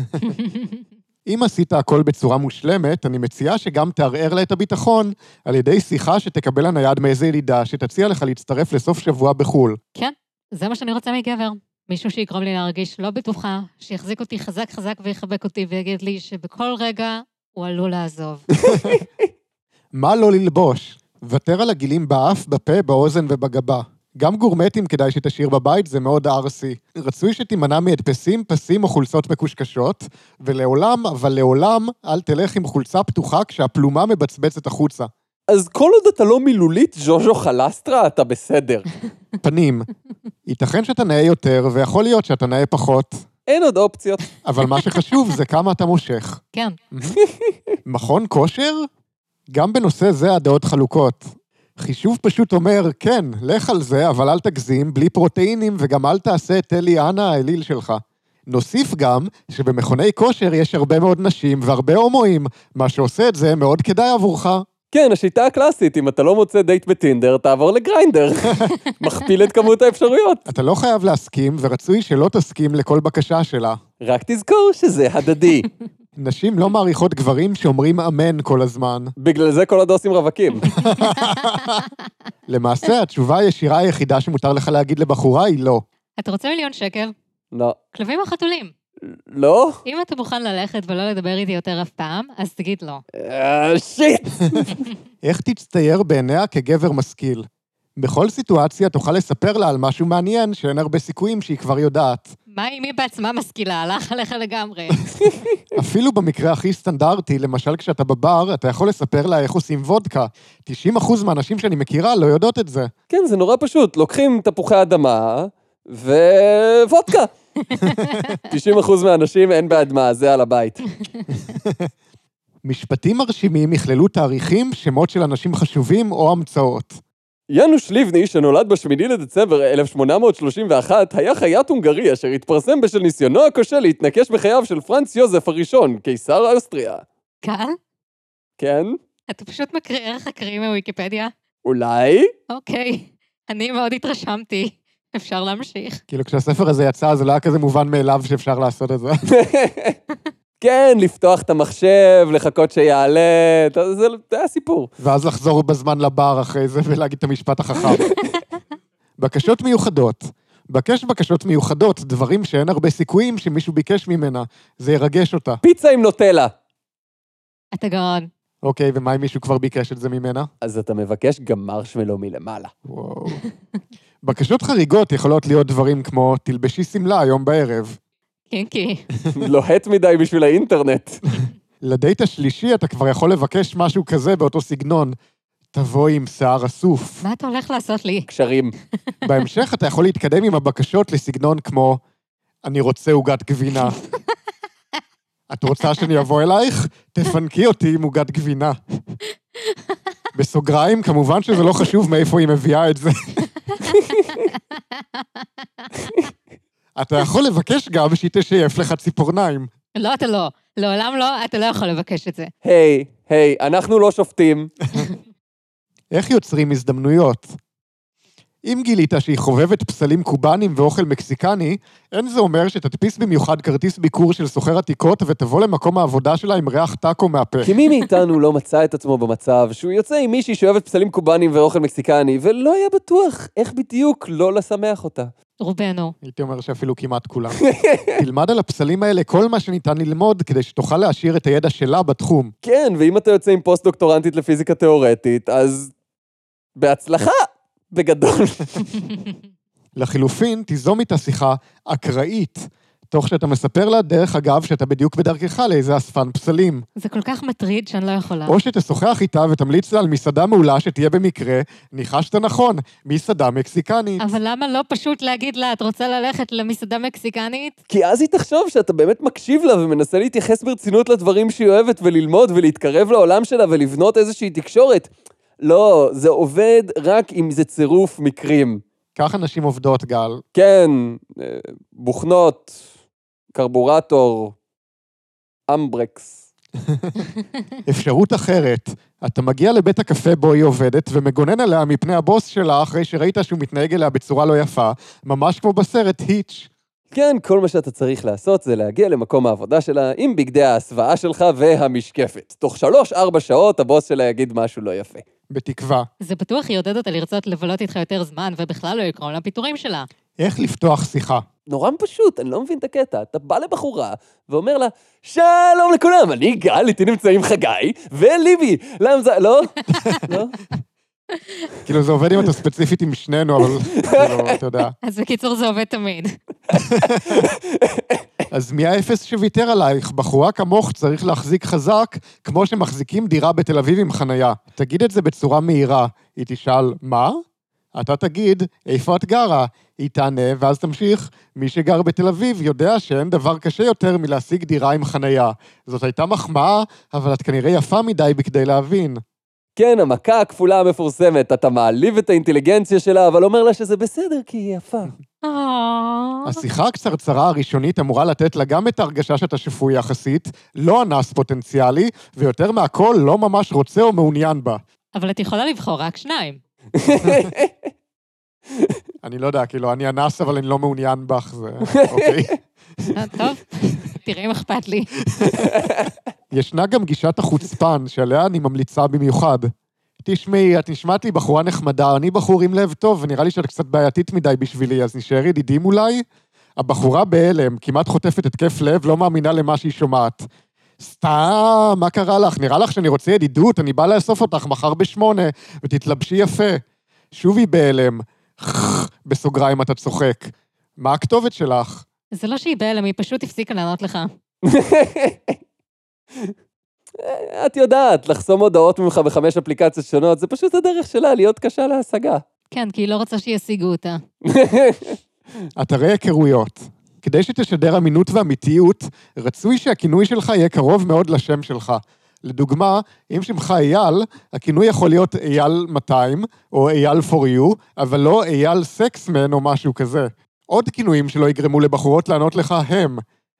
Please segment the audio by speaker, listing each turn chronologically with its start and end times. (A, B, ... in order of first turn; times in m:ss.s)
0:01.3-0:09.8 A
0:10.0-0:18.8 B
0:18.7-0:19.0 A
0:18.8-0:19.0 C
0:19.9-0:35.1 A
0:35.5-0:38.9 C
0:39.4-0:39.9 A
0:40.5-0:43.2 A
0:43.5-0:44.3 C
0:44.4-0:47.2 A
0:47.2-0:47.5 C
0:47.8-0:48.9 A
0:49.5-1:04.7 A
1:04.9-1:10.5 C
1:10.5-1:13.8 A
1:14.0-1:15.7 C
1:16.2-1:19.1 A
1:19.2-1:20.7 C
1:20.7-1:21.8 A
1:22.5-1:25.8 A
1:26.2-1:27.1 B
1:27.5-1:27.8 C
1:27.9-1:28.7 B
1:29.0-1:29.8 C
1:29.9-1:33.0 B
1:33.1-1:34.8 C
1:35.2-1:42.4 A
1:42.5-1:45.2 B
1:45.7-1:52.9 A
1:53.1-1:57.3 C
1:57.8-1:58.2 A
1:57.9-1:58.2 B
1:58.4-2:00.8 C
2:01.3-2:01.9 A
2:02.6-2:07.0 A
2:07.5-2:17.0 C
2:17.4-2:17.8 B
2:18.6-2:19.0 C
2:19.3-2:21.3 B
2:21.6-2:22.3 C
2:22.5-2:26.0 B
2:26.1-2:29.2 A
2:29.3-2:30.0 C
2:30.6-2:34.9 C
2:35.0-2:38.1 A
2:39.2-2:45.6 A
2:45.6-2:46.5 C
2:47.7-2:48.3 B
2:48.6-2:50.5 A
2:50.6-2:52.7 C
2:52.9-2:53.4 A
2:54.2-2:58.0 A
2:58.5-2:59.0 B
2:59.4-3:01.2 C
3:01.8-3:05.2 A
3:05.7-3:07.2 A
3:07.2-3:08.3 B
3:08.3-3:08.8 C
3:09.2-3:12.0 A
3:12.6-3:14.0 A
3:15.5-3:18.8 A
3:20.3-3:23.5 A
3:23.9-3:24.2 B
3:26.0-3:26.3 C
3:27.0-3:29.7 A
3:30.0-3:32.5 B
3:32.6-3:34.7 C
3:36.1-3:37.6 A
3:38.6-3:47.8 A
3:47.6-3:55.3 C
3:55.6-3:56.2 B
3:56.2-3:57.6 A
3:57.7-3:58.1 C
3:58.2-4:02.5 A
4:02.6-4:05.9 C
4:06.8-4:08.8 C
4:10.0-4:16.9 A
4:17.0-4:18.6 B
4:18.5-4:24.2 A
4:24.2-4:27.8 B
4:27.9-4:35.1 C
4:35.6-4:38.8 C
4:39.2-4:40.4 A
4:40.6-4:42.8 C
4:43.5-4:44.6 C
4:45.7-4:46.4 C
4:46.9-4:47.1 A
4:47.9-4:56.7 A
4:57.1-5:05.2 C
5:05.5-5:06.1 A
5:06.2-5:10.1 B
5:10.4-5:11.4 A
5:11.7-5:20.6 C
5:21.9-5:25.0 A
5:24.1-5:24.5 C
5:25.0-5:26.4 B
5:26.7-5:27.5 A
5:27.3-5:28.2 C
5:28.5-5:37.4 A
5:37.9-5:49.2 A
5:49.8-5:55.1 C
5:55.4-5:56.6 B
5:56.4-6:04.8 A
6:05.1-6:06.6 B
6:06.9-6:07.7 C
6:08.7-6:09.0 C
6:09.2-6:13.1 A
6:12.1-6:12.4 C
6:13.1-6:15.1 B
6:15.3-6:15.7 A
6:15.6-6:16.1 C
6:16.5-6:19.7 A
6:20.2-6:26.2 A
6:26.8-6:30.5 A
6:31.0-6:36.8 A
6:37.3-6:42.0 A
6:42.3-6:44.3 B
6:44.6-6:45.6 C
6:47.2-6:52.4 C
6:52.7-6:54.2 B
6:54.4-6:55.2 C
6:55.8-7:13.2 A